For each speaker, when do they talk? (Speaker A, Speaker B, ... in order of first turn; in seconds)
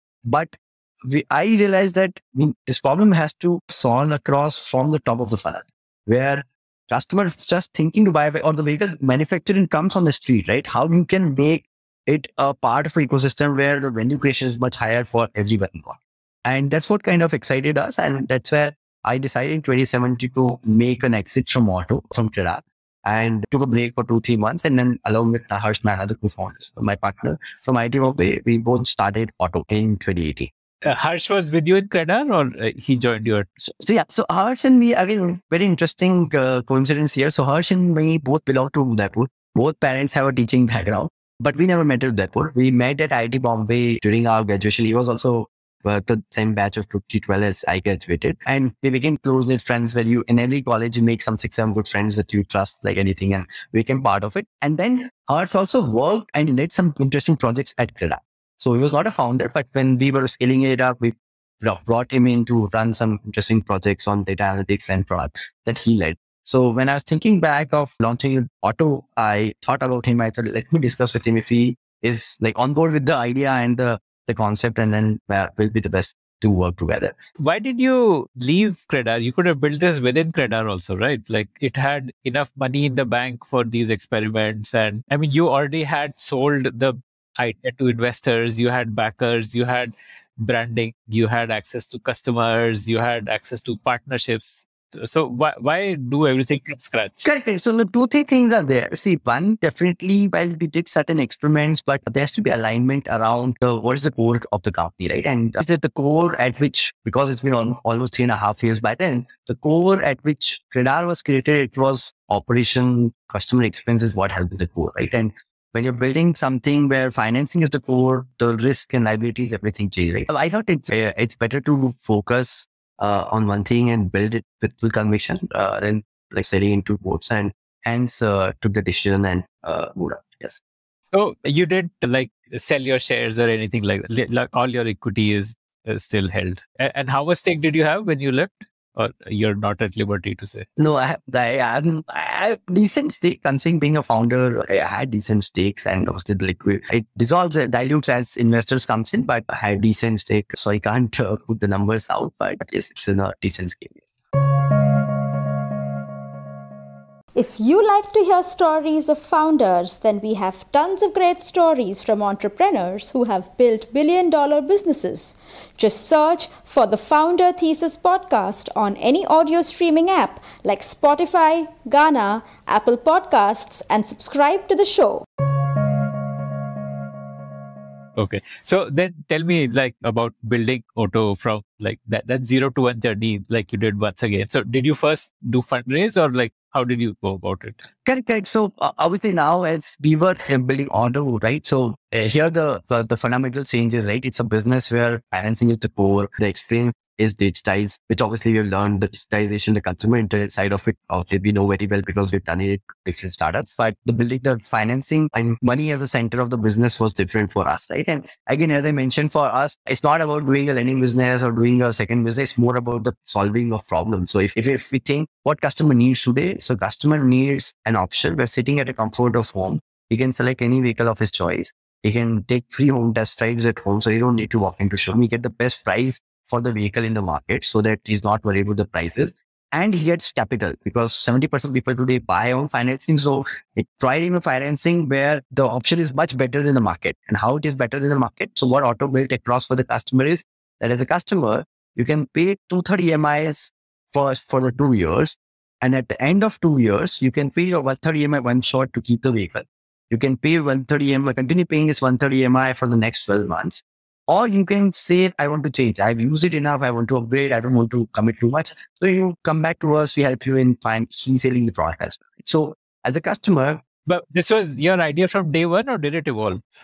Speaker A: 0.3-30.5, 33.6-77.2, 97.2-130.6, 140.8-154.0, 188.1-263.8
Speaker B: 30.8-33.5, 77.4-97.3, 131.1-140.7, 178.2-187.8, 264.1-266.6
Speaker C: 157.3-175.3